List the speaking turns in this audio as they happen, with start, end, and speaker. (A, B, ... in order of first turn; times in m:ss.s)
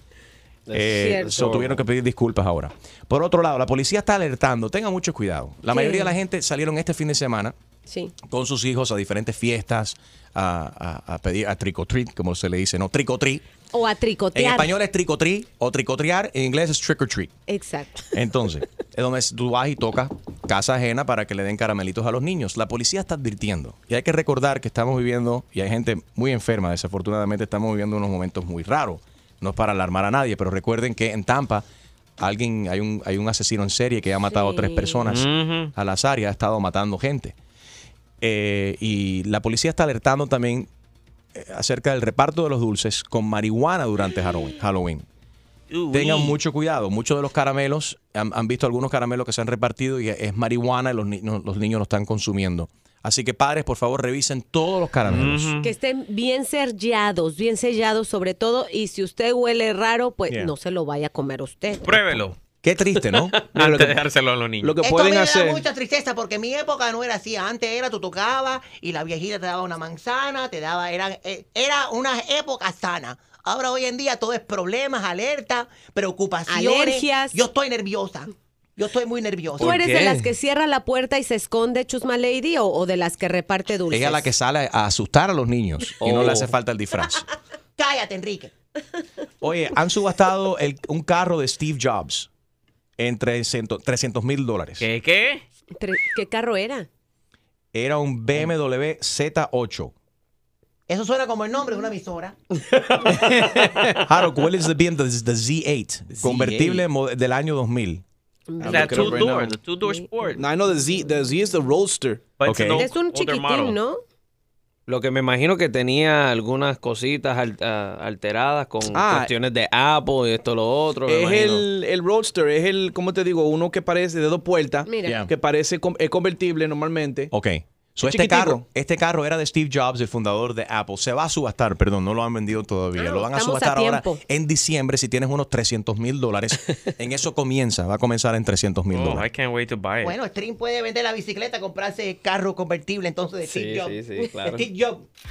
0:00.7-0:01.8 A
0:00.7-0:07.6 B
0:00.9-0:01.5 C
0:05.7-0:06.1 C
0:07.9-0:08.1 C
0:08.2-0:13.4 B
0:13.7-0:14.7 C
0:14.3-0:17.3 B
0:17.5-0:18.1 C
0:18.1-0:31.6 B
0:32.2-0:37.4 B
0:34.3-0:35.0 C
0:35.1-0:35.7 D
0:38.2-0:40.7 B
0:41.3-0:45.0 B
0:45.7-0:46.4 D
0:45.9-0:55.5 B
0:55.1-0:55.7 D
0:55.6-1:02.2 C
1:01.8-1:02.4 D
1:02.6-1:03.4 B
1:03.5-1:04.7 D
1:03.6-1:04.0 E
1:04.6-1:05.6 E
1:04.8-1:19.8 F
1:16.5-1:17.4 C
1:19.6-1:20.3 D
1:19.6-1:24.3 C
1:23.9-1:27.2 B
1:26.0-1:26.6 A
1:27.8-1:28.5 F
1:29.4-1:32.3 B
1:33.0-1:34.9 B
1:34.8-1:35.4 D
1:35.8-1:36.9 C
1:37.7-1:39.9 B
1:40.9-1:42.4 F
1:43.0-1:43.8 A
1:44.0-1:48.0 B
1:46.2-1:46.8 A
1:48.5-1:49.3 C
1:48.6-1:49.6 E
1:48.7-1:50.4 D
1:49.8-1:50.1 C
1:50.4-1:52.3 E
1:52.4-1:53.8 D
1:52.4-1:52.9 B
1:52.7-1:54.0 C
1:54.9-2:01.7 A
1:58.9-1:59.3 E
2:01.1-2:07.3 E
2:04.8-2:05.2 C
2:05.0-2:05.3 B
2:07.3-2:19.3 B
2:08.1-2:08.6 E
2:13.0-2:14.2 C
2:18.9-2:20.2 D
2:20.0-2:25.0 F
2:23.4-2:24.7 A